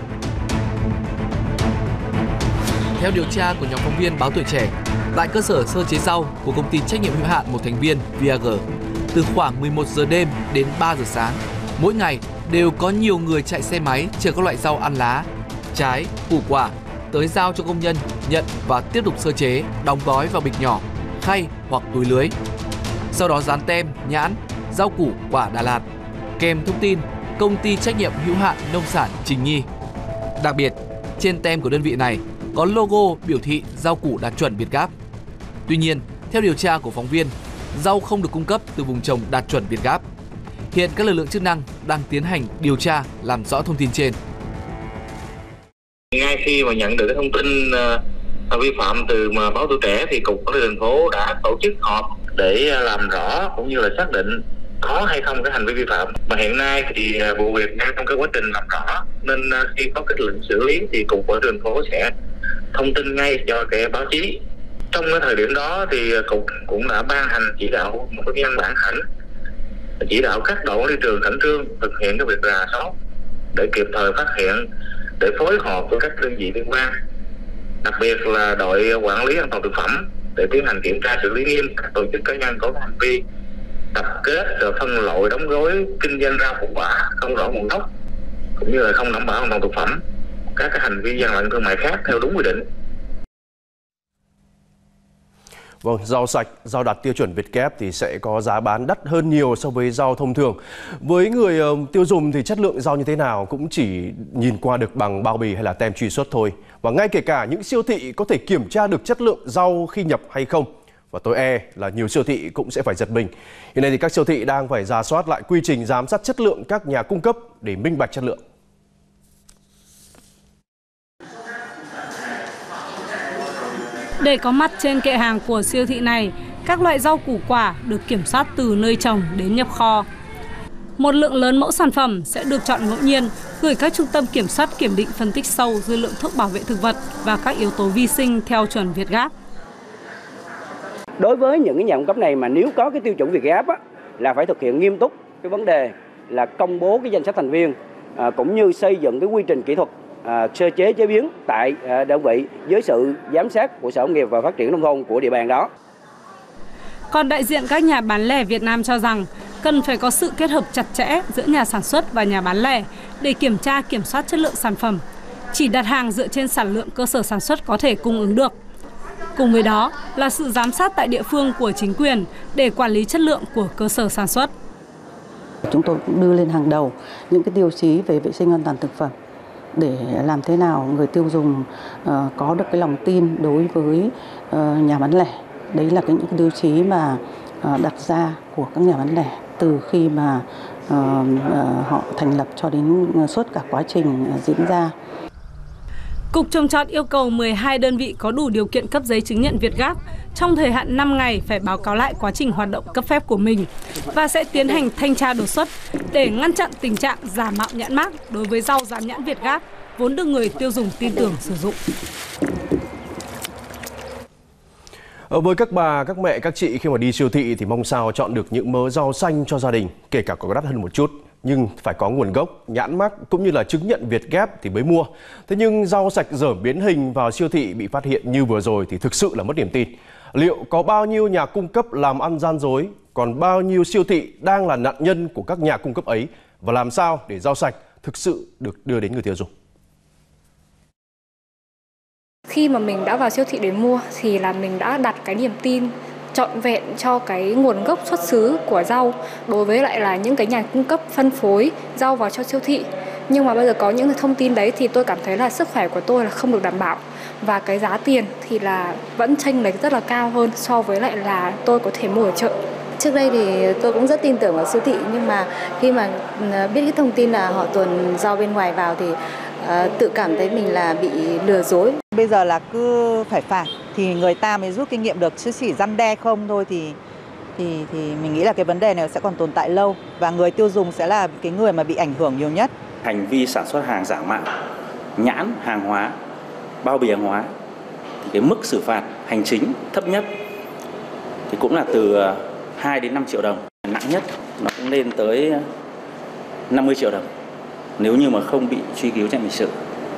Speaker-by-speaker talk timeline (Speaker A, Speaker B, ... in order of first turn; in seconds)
Speaker A: 3.0-22.3, 23.1-25.9, 26.4-29.7, 30.4-34.9, 35.7-40.0, 40.7-44.2
Speaker B: 46.1-62.1, 62.7-64.4, 64.9-69.0, 70.0-72.9, 73.5-74.6, 75.2-76.9, 77.8-83.2, 83.9-87.9, 88.6-90.0, 90.5-92.7
Speaker C: 95.8-118.4, 215.3-239.5
Speaker D: 124.2-130.1, 131.0-139.3, 157.1-168.5, 169.4-174.5, 196.3-211.8
Speaker E: 141.2-155.7
Speaker F: 175.7-179.1, 179.8-194.9
Speaker G: 242.5-262.5
Speaker H: 263.0-272.0
Speaker I: 272.1-277.0, 277.6-282.7
Speaker J: 283.0-284.5, 285.2-286.1, 286.8-287.5, 288.2-290.3, 291.5-295.6, 296.7-297.3, 298.0-299.7